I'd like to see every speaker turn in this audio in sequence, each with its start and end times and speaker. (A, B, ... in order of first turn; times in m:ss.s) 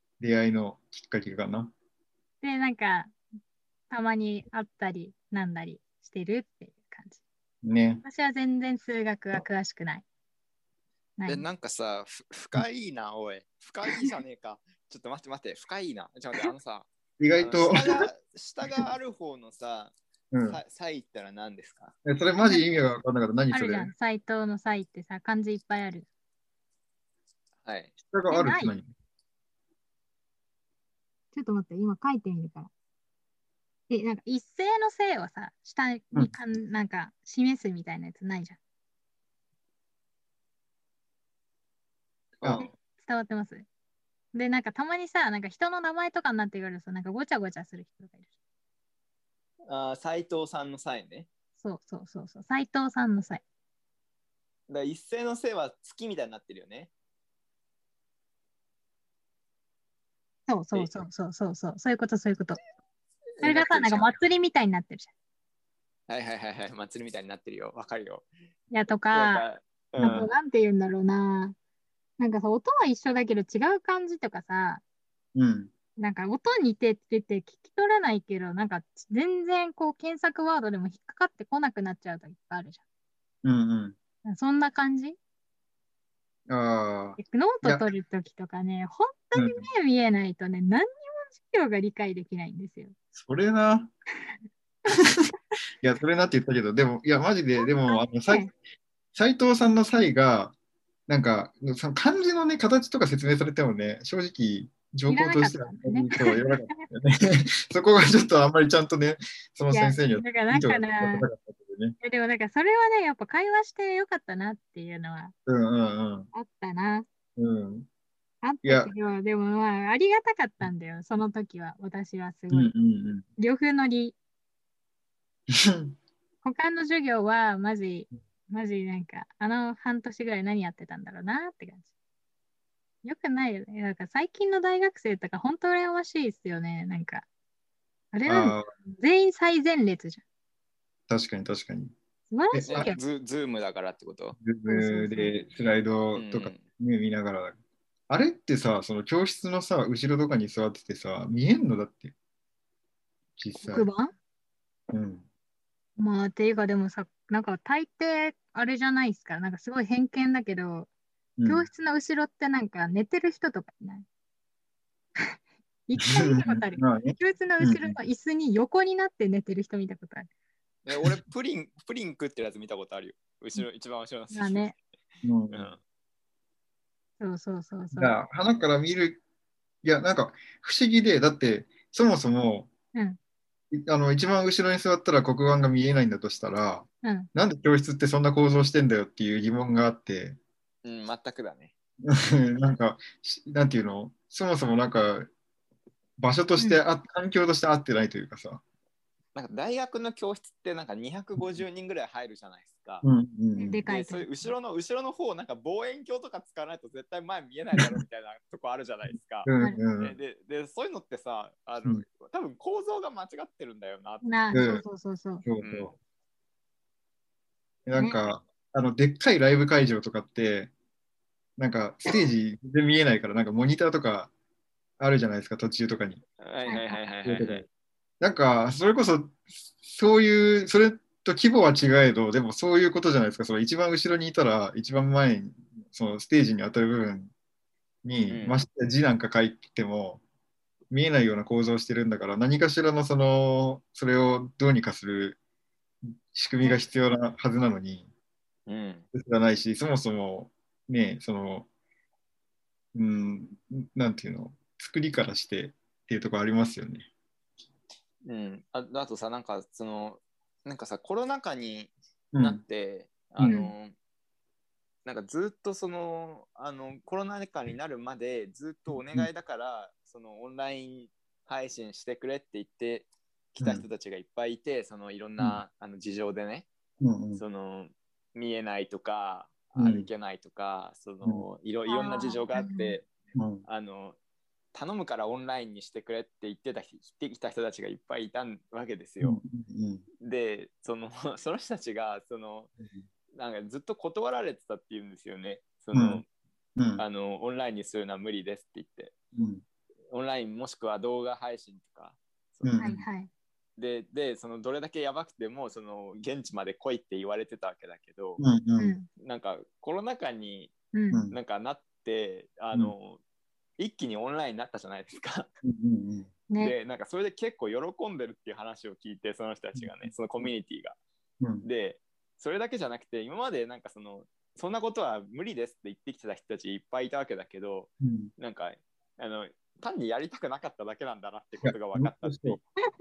0:00.2-0:01.7 A
0:02.4-0:03.1 B
0:03.9-0:07.2 B
0:07.6-0:08.0 A
0:08.0-0:10.0 B
0:11.2-0:11.4 B
0:11.3-0:19.9 C
0:17.2-0:18.1 A
0:20.3-0:20.6 A
0:20.4-0:21.9 C
0:22.0-0:23.9 A
0:23.5-0:26.1 B
0:27.6-0:27.9 C
0:28.0-0:28.9 A
0:28.3-0:28.7 B
0:31.3-0:32.7 B
0:33.9-0:38.6 B
0:42.4-0:42.7 C
0:42.4-0:42.7 A
0:43.0-0:43.7 B
0:44.3-0:48.3 B
0:49.7-0:51.3 C
0:51.6-0:53.4 B
0:54.7-0:56.9 C
1:00.5-1:02.6 B
1:03.4-1:04.1 C
1:03.4-1:05.1 B
1:06.1-1:08.3 C
1:08.7-1:09.4 B
1:09.1-1:10.3 C
1:10.0-1:10.2 A
1:10.0-1:11.6 B
1:12.2-1:14.8 B
1:15.4-1:15.7 A
1:16.0-1:22.8 B
1:23.4-1:24.0 A
1:24.2-1:25.2 B
1:26.5-1:27.9 A
1:27.2-1:32.9 B
1:29.4-1:29.7 A
1:33.1-1:33.9 A
1:35.8-1:38.5 A
1:37.9-1:38.5 B
1:39.1-1:40.6 A
1:41.1-1:52.0 A
1:45.1-1:46.8 B
1:49.7-1:51.2 B
1:52.0-1:55.3 B
1:55.5-1:56.3 A
1:56.3-1:57.1 B
1:57.4-1:57.9 A
1:58.4-2:02.7 B
1:58.6-1:58.9 A
2:02.5-2:03.2 A
2:03.4-2:04.2 B
2:05.5-2:05.9 A
2:06.4-2:11.9 B
2:13.0-2:17.2 B
2:18.1-2:20.2 B
2:18.3-2:18.6 A
2:21.1-2:21.9 A
2:22.3-2:23.0 B
2:22.5-2:22.9 A
2:22.7-2:24.4 C
2:24.4-2:27.6 A
2:24.7-2:25.4 B
2:26.1-2:26.7 C
2:28.1-2:32.1 A
2:33.4-2:33.9 A
2:33.6-2:34.1 B
2:34.9-2:35.2 A
2:36.0-2:40.9 B
2:41.4-2:41.7 A
2:41.4-2:44.1 B
2:45.2-2:50.3 B
2:46.0-2:48.0 A
2:50.9-2:54.8 C
2:54.3-2:54.8 B
2:55.2-2:55.7 A
2:55.5-2:55.8 C
2:57.2-2:58.2 B
2:57.9-2:59.2 A
2:59.8-3:02.7 A
3:02.9-3:03.2 B
3:03.7-3:10.4 A
3:07.0-3:07.3 B
3:10.8-3:11.7 C
3:12.0-3:15.3 A
3:16.2-3:18.6 A
3:19.4-3:23.1 C
3:21.4-3:21.6 A
3:23.0-3:23.8 A
3:23.6-3:24.3 B
3:23.9-3:34.3 C
3:29.4-3:30.2 A
3:34.2-3:35.4 B
3:34.5-3:34.8 A
3:35.4-3:35.9 A
3:35.6-3:35.9 C
3:37.9-3:40.7 A
3:38.0-3:38.3 B
3:41.6-3:44.3 A
3:45.0-3:46.2 A
3:46.4-3:47.6 C
3:46.6-3:47.0 B
3:47.2-3:47.6 A
3:48.2-3:57.3 A
3:58.0-4:00.2 A
3:58.3-3:58.6 C
4:00.9-4:05.4 A
4:06.3-4:08.1 A
4:08.7-4:09.1 C
4:09.1-4:11.7 A
4:12.9-4:17.1 A
4:18.2-4:23.9 C
4:22.3-4:22.6 A
4:23.4-4:23.7 A
4:25.0-4:36.7 C
4:33.6-4:33.8 A
4:37.0-4:37.4 A
4:37.4-4:43.1 C
4:39.8-4:40.1 A
4:41.9-4:42.9 B
4:43.4-4:43.6 A
4:43.6-4:44.2 C
4:44.7-4:49.4 C
4:49.2-4:50.0 A
4:50.2-4:52.7 C
4:53.3-4:56.2 C
4:55.9-4:56.2 A
4:56.8-4:57.0 A
4:57.0-4:59.1 C
4:59.4-4:59.6 A
5:00.1-5:02.9 C
5:02.6-5:03.0 A
5:02.8-5:03.3 B
5:03.8-5:08.4 C
5:08.4-5:08.9 A
5:08.8-5:09.1 B
5:09.2-5:10.7 C
5:10.9-5:11.2 B
5:11.1-5:11.4 A
5:11.3-5:13.2 C
5:13.8-5:15.5 C
5:15.6-5:16.3 A
5:16.5-5:16.7 B
5:16.6-5:21.0 C
5:19.8-5:20.1 A
5:21.4-5:21.6 A
5:21.6-5:32.6 C
5:28.0-5:28.3 A
5:31.6-5:32.6 A